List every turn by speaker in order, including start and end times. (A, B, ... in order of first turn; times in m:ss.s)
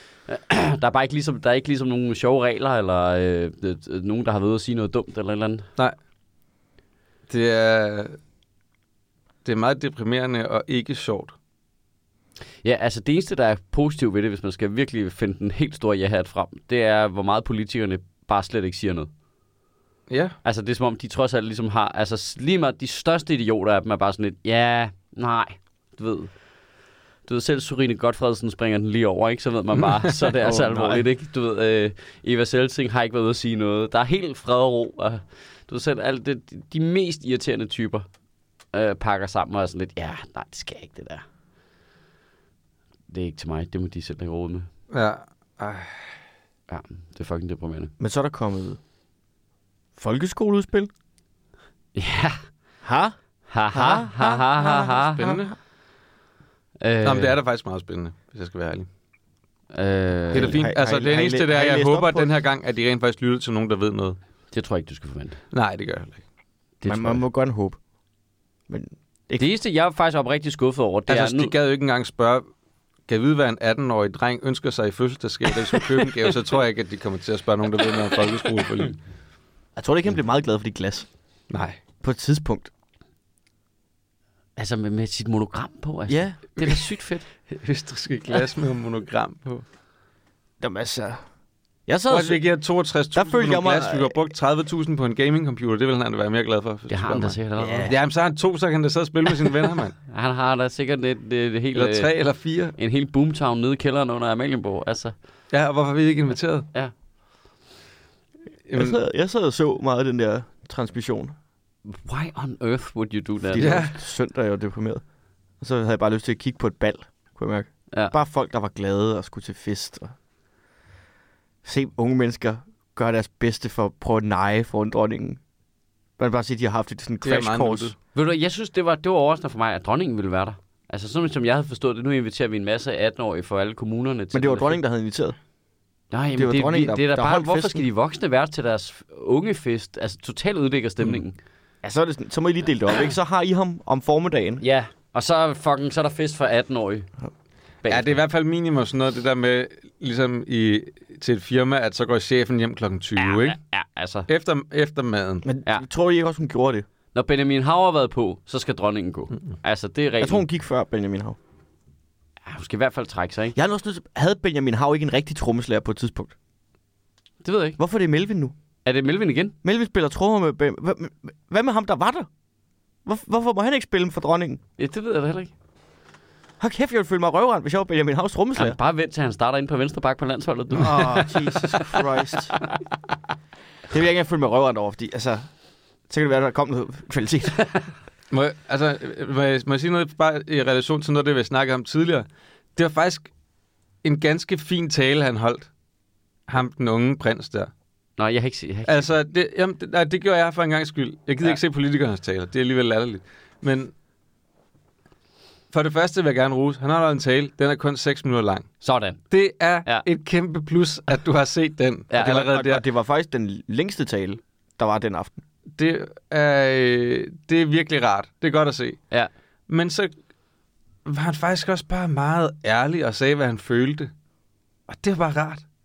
0:00.2-0:05.7 A
0:07.3-0:08.2 B
0:09.4-0:11.3 B
0:12.6-0:19.1 A
0:20.1-0:20.4 B
0:20.4-0:26.3 A
0:27.2-0:38.0 A
0:30.4-0:31.0 C
0:38.7-0:41.2 A
0:43.1-0:44.7 A
0:44.9-0:46.0 B
0:46.7-0:47.9 A
0:48.0-0:48.8 C
0:50.0-0:50.9 C
0:51.9-0:52.4 A
0:52.8-0:53.2 C
0:53.5-0:55.3 A
0:53.7-0:55.4 C
0:55.0-0:55.5 B
0:56.8-0:57.4 A
0:57.0-0:58.9 B
0:59.7-1:00.6 A
1:00.3-1:04.2 B
1:00.3-1:02.3 C
1:04.5-1:05.4 A
1:05.5-1:06.2 B
1:06.8-1:07.2 A
1:06.8-1:07.8 C
1:08.7-1:09.4 C
1:09.4-1:11.5 A
1:11.1-1:12.4 B
1:13.1-1:19.0 B
1:19.8-1:21.1 C
1:21.5-1:21.8 B
1:22.0-1:22.7 C
1:24.6-1:27.2 A
1:26.1-1:26.4 C
1:27.5-1:29.6 B
1:30.6-1:31.2 C
1:31.9-1:32.4 C
1:32.1-1:40.0 B
1:33.1-1:34.2 C
1:36.9-1:37.9 A
1:37.6-1:38.0 C
1:40.1-1:42.1 A
1:41.7-1:42.7 B
1:42.8-1:45.1 A
1:45.5-1:46.7 B
1:48.7-1:49.0 B
1:48.7-1:51.3 C
1:51.8-1:53.8 A
1:53.5-1:55.0 C
1:53.6-1:53.9 B
1:55.6-2:00.1 C
2:01.6-2:05.4 C
2:06.2-2:07.9 C
2:07.2-2:07.9 B
2:08.1-2:14.8 A
2:14.3-2:15.4 C
2:16.1-2:21.4 A
2:16.4-2:17.8 C
2:21.8-2:24.6 C
2:24.6-2:27.1 A
2:27.8-2:28.2 A
2:27.9-2:33.6 B
2:33.2-2:34.3 A
2:34.3-2:35.4 B
2:35.4-2:36.8 C
2:37.1-2:40.4 A
2:40.2-2:41.4 C
2:42.4-2:43.6 A
2:43.6-2:46.3 C
2:47.4-2:47.8 A
2:47.8-2:48.5 C
2:48.8-2:49.5 A
2:49.6-2:52.3 C
2:53.0-2:54.6 C
2:54.8-2:55.5 A
2:56.6-2:58.8 C
2:58.6-3:02.0 A
3:00.7-3:02.6 C
3:03.9-3:05.4 C
3:06.1-3:07.6 C
3:08.3-3:13.3 B
3:14.0-3:15.7 B
3:16.5-3:17.7 B
3:18.2-3:19.1 A
3:18.9-3:23.9 B
3:25.7-3:28.7 B
3:28.8-3:29.2 A
3:29.3-3:32.8 B
3:32.1-3:32.4 A
3:32.2-3:35.4 C
3:35.8-3:39.0 B
3:39.7-3:40.1 B
3:41.0-3:44.1 B
3:44.9-3:45.6 B